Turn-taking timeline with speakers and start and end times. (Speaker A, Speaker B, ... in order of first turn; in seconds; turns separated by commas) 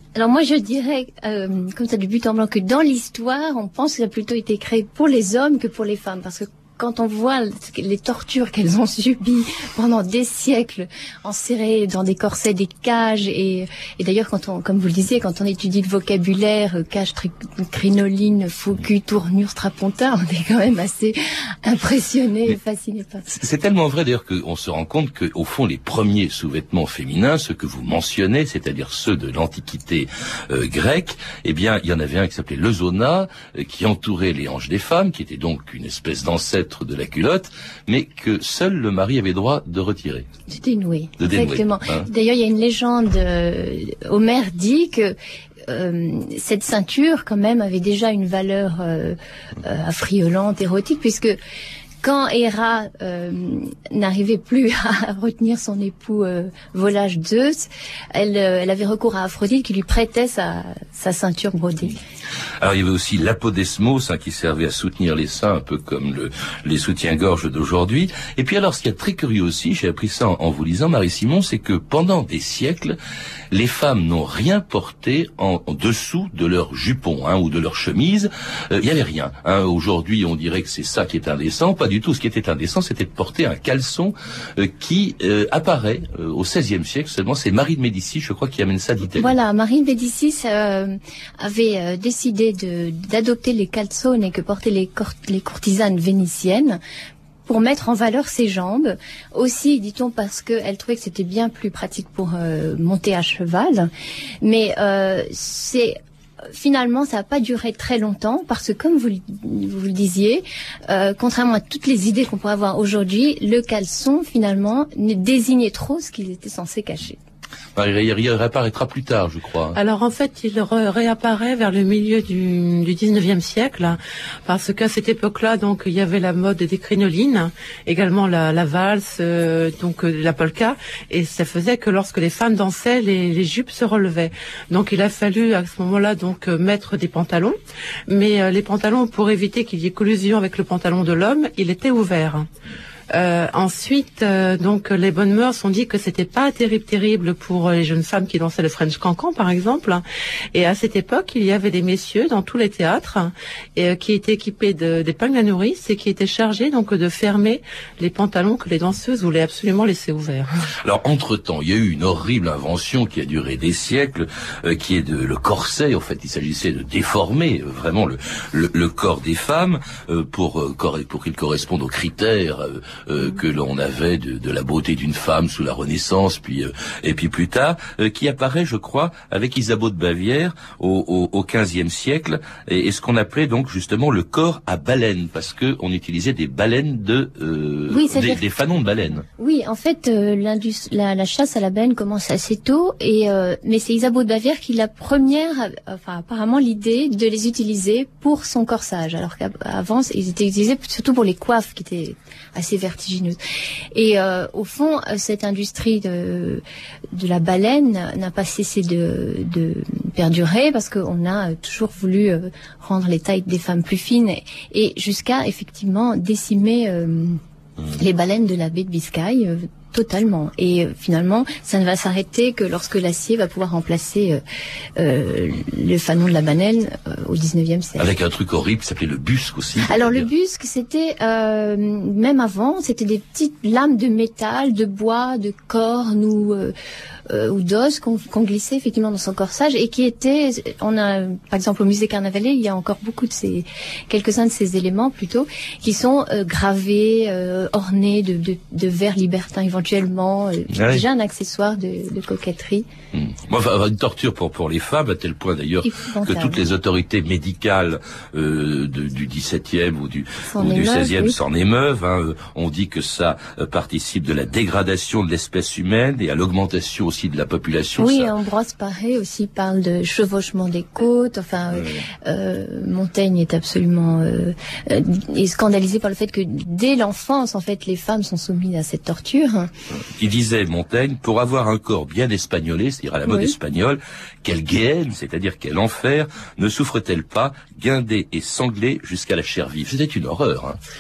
Speaker A: 0.1-23.3, Speaker B: 23.3-40.3, Speaker A: 40.5-51.4, Speaker B: 41.2-42.1, Speaker A: 52.0-62.0, Speaker B: 62.6-73.0, Speaker B: 73.5-89.3, Speaker A: 89.2-96.8, Speaker A: 97.5-103.9, Speaker A: 104.4-106.0, Speaker A: 106.5-117.2, Speaker B: 117.8-119.8, Speaker C: 119.8-137.6, Speaker C: 138.1-142.5, Speaker C: 143.1-150.0, Speaker C: 150.5-160.5, Speaker B: 160.8-189.2, Speaker A: 187.9-188.4, Speaker A: 189.4-203.4, Speaker A: 203.9-217.4, Speaker A: 217.9-224.4, Speaker A: 225.0-228.1, Speaker B: 228.0-230.3, Speaker A: 229.9-236.7, Speaker A: 237.3-252.9, Speaker B: 250.7-251.0, Speaker B: 253.1-268.3, Speaker A: 255.8-256.6, Speaker A: 260.5-261.4, Speaker A: 268.0-279.7, Speaker B: 280.2-290.8, Speaker A: 283.2-283.5